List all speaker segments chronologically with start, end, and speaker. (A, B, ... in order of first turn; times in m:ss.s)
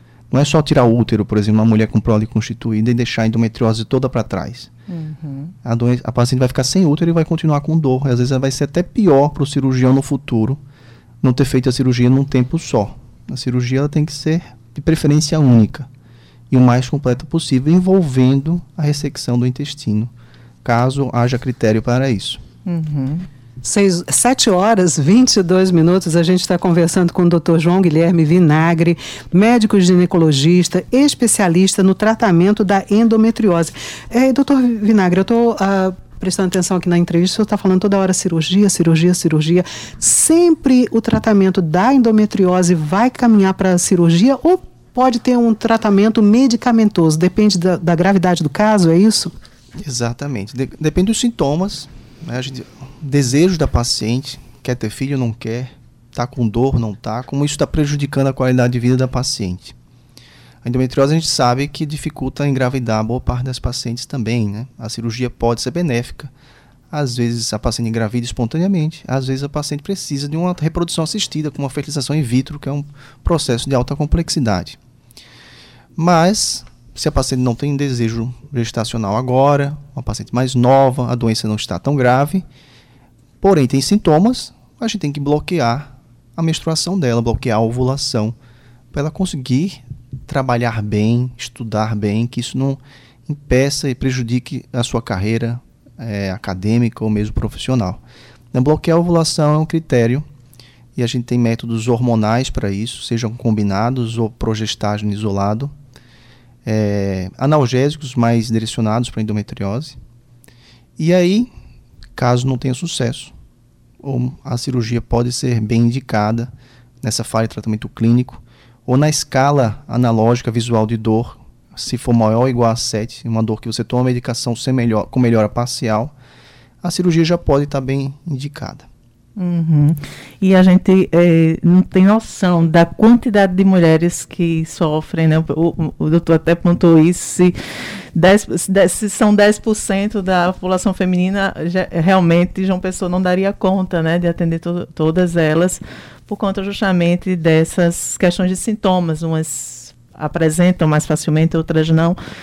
0:00.3-0:04.7 A
0:04.9-0:05.5 B
0:05.6-0:10.6 A
0:11.2-0:15.9 A
0:16.5-0:20.1 A
0:20.6-0:22.4 A
0:22.6-0:23.3 B
0:23.6-0:49.3 C
0:49.8-0:59.7 A
1:00.6-1:06.3 A
1:06.9-1:14.8 A
1:16.0-1:22.4 A
1:23.4-1:28.4 A
1:28.9-1:38.0 A
1:38.5-1:40.2 A
1:41.0-1:45.7 A
1:46.6-1:50.0 A
1:51.0-1:51.5 A
1:52.2-1:53.3 A
1:54.0-1:56.5 A
1:57.0-2:06.1 A
2:06.8-2:08.9 A
2:09.4-2:17.6 B
2:18.1-2:32.2 B